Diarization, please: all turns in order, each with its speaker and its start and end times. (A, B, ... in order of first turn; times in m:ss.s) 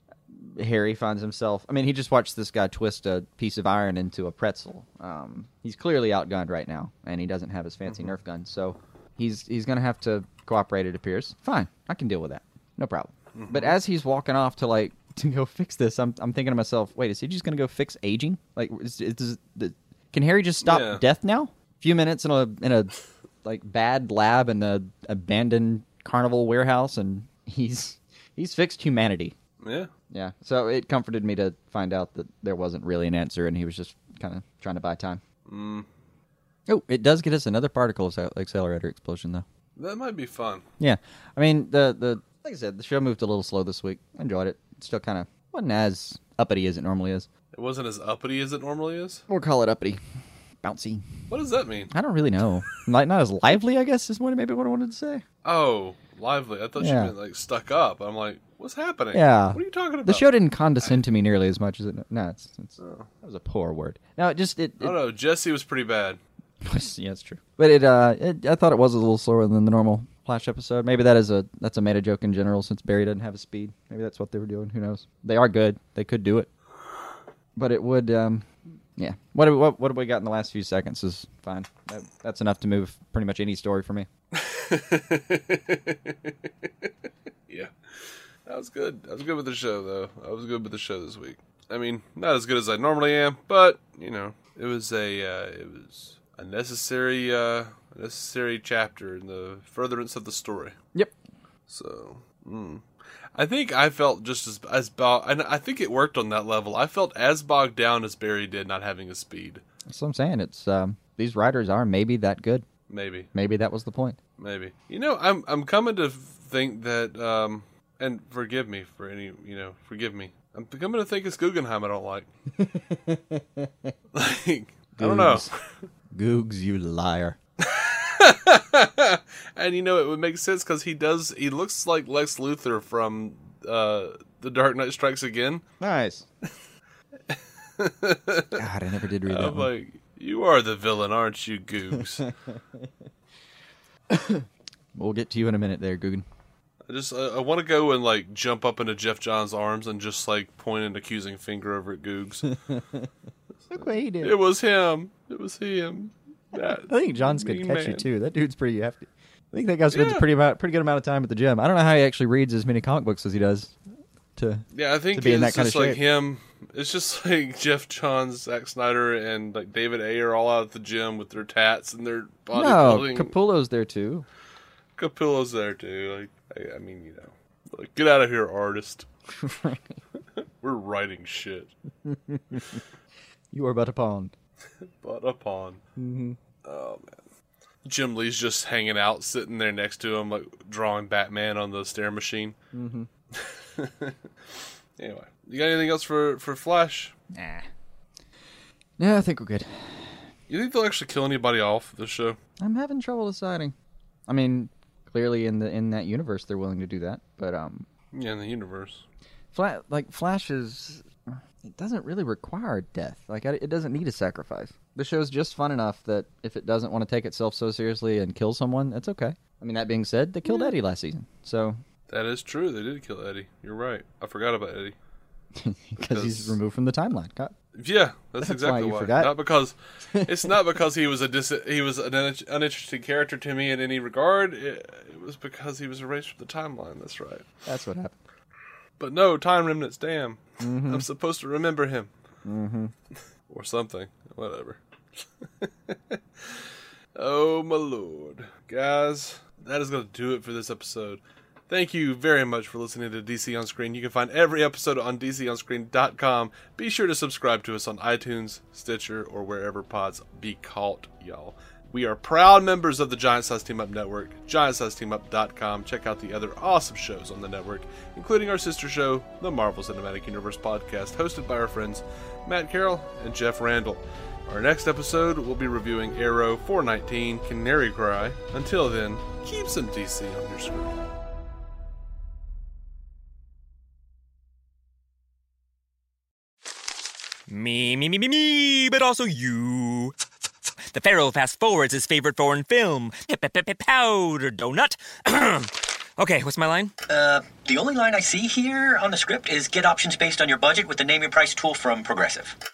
0:00.3-0:22.9 A
0:07.9-0:08.2 B
0:13.4-0:13.8 B
0:20.6-0:21.0 B
0:23.4-0:29.4 A
0:29.6-0:29.9 B
0:30.1-0:35.2 A
0:35.5-0:35.9 B
0:36.7-0:39.4 A
0:39.8-0:40.7 B
0:40.8-0:47.3 A
0:47.5-0:49.2 B
0:49.3-0:50.0 A
0:50.6-0:51.1 A
0:51.3-0:51.9 B
0:51.9-0:55.2 A
0:55.4-1:00.3 B
0:56.8-0:57.1 A
0:59.1-1:05.0 A
1:02.8-1:03.1 B
1:04.8-1:06.2 B
1:06.6-1:16.5 A
1:17.6-1:24.1 A
1:24.3-1:26.3 B
1:28.5-1:40.8 B
1:41.7-1:42.8 B
1:43.4-1:49.6 B
1:49.9-1:52.7 A
1:52.9-1:53.3 B
1:53.3-1:54.2 A
1:54.4-2:02.3 B
2:02.6-2:03.9 A
2:04.1-2:05.6 B
2:05.0-2:05.5 A
2:06.1-2:07.4 A
2:07.6-2:15.6 B
2:15.8-2:16.3 A
2:17.3-2:18.6 B
2:18.6-2:19.7 A
2:19.3-2:22.3 B
2:24.1-2:26.2 A
2:26.9-2:32.6 B
2:32.5-2:33.1 A
2:33.7-2:34.4 A
2:34.2-2:38.1 B
2:36.6-2:43.8 A
2:39.9-2:40.3 B
2:44.4-2:46.0 A
2:44.7-2:53.4 B
2:52.5-2:54.3 A
2:55.0-2:59.1 B
2:59.4-3:00.0 A
3:00.6-3:01.7 B
3:02.0-3:02.8 A
3:03.5-3:04.3 A
3:05.0-3:05.8 B
3:06.0-3:06.4 A
3:06.6-3:07.2 B
3:07.8-3:12.6 B
3:12.7-3:13.1 A
3:13.3-3:14.2 B
3:15.0-3:17.2 B
3:17.3-3:17.7 A
3:19.0-3:20.2 A
3:20.5-3:22.4 B
3:22.6-3:23.8 A
3:24.3-3:27.9 A
3:28.1-3:29.0 B
3:29.5-3:41.8 A
3:42.1-3:45.0 B
3:45.6-3:47.6 A
3:46.0-3:46.6 B
3:47.8-3:57.5 B
3:48.4-3:49.3 A
3:50.1-3:50.5 A
3:57.7-3:58.2 A
3:59.0-4:02.1 B
4:00.6-4:01.1 A
4:02.4-4:02.9 A
4:03.5-4:04.8 B
4:05.6-4:06.6 B
4:07.2-4:41.0 B
4:47.5-4:50.2 C
4:50.9-4:57.0 C
4:57.1-5:02.6 D